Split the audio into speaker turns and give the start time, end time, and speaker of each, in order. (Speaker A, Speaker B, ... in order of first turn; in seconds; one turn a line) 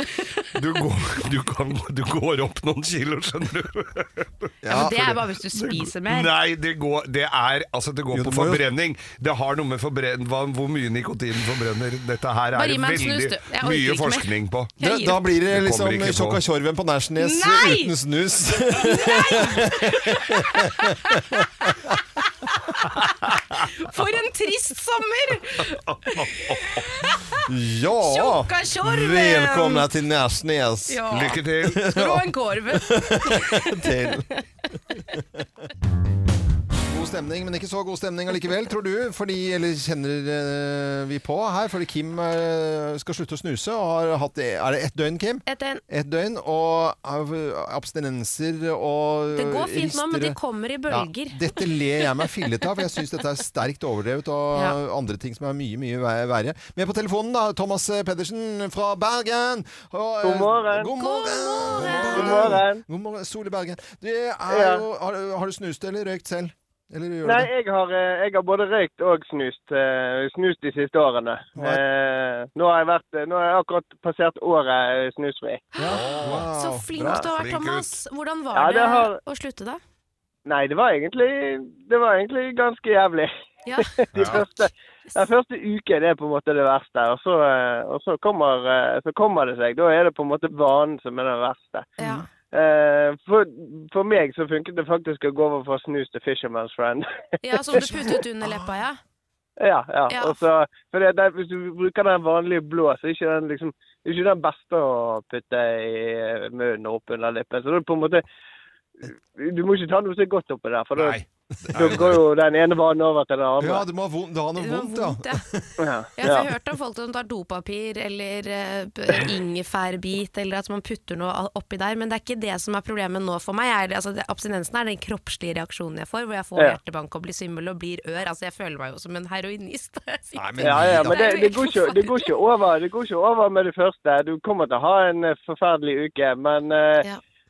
Speaker A: 0.4-4.5
Speaker B: 4.6-5.2
Speaker C: 4.7-6.3
Speaker A: 5.5-14.7
Speaker B: 8.1-8.6
Speaker C: 12.6-15.2
Speaker B: 14.8-21.4
Speaker A: 15.5-16.4
Speaker C: 17.2-17.9
Speaker C: 18.7-21.9
Speaker C: 22.4-22.8
Speaker C: 23.5-27.5
Speaker A: 25.9-26.8
Speaker B: 27.4-31.1
Speaker C: 28.0-29.9
Speaker C: 30.9-34.4
Speaker A: 31.1-31.9
Speaker B: 31.6-34.3
Speaker B: 36.9-67.5
Speaker C: 45.5-45.8
Speaker C: 49.3-51.5
Speaker D: 60.2-60.9
Speaker C: 60.9-62.5
Speaker D: 61.9-62.8
Speaker D: 64.5-64.8
Speaker D: 67.2-75.6
Speaker B: 71.5-71.8
Speaker C: 75.7-79.8
Speaker B: 75.8-77.2
Speaker A: 75.9-76.5
Speaker A: 77.0-78.0
Speaker D: 78.5-79.2
Speaker D: 80.5-91.9
Speaker C: 83.7-83.9
Speaker A: 84.1-84.4
Speaker C: 92.0-92.3
Speaker D: 92.5-97.1
Speaker C: 97.4-99.0
Speaker D: 97.6-98.2
Speaker D: 99.6-108.2
Speaker C: 100.1-100.3
Speaker D: 109.0-111.2
Speaker A: 110.9-112.2
Speaker D: 111.7-113.8
Speaker B: 113.6-115.9
Speaker C: 114.6-115.4
Speaker D: 115.8-116.5
Speaker C: 116.2-132.3
Speaker B: 130.3-131.2
Speaker D: 130.6-137.1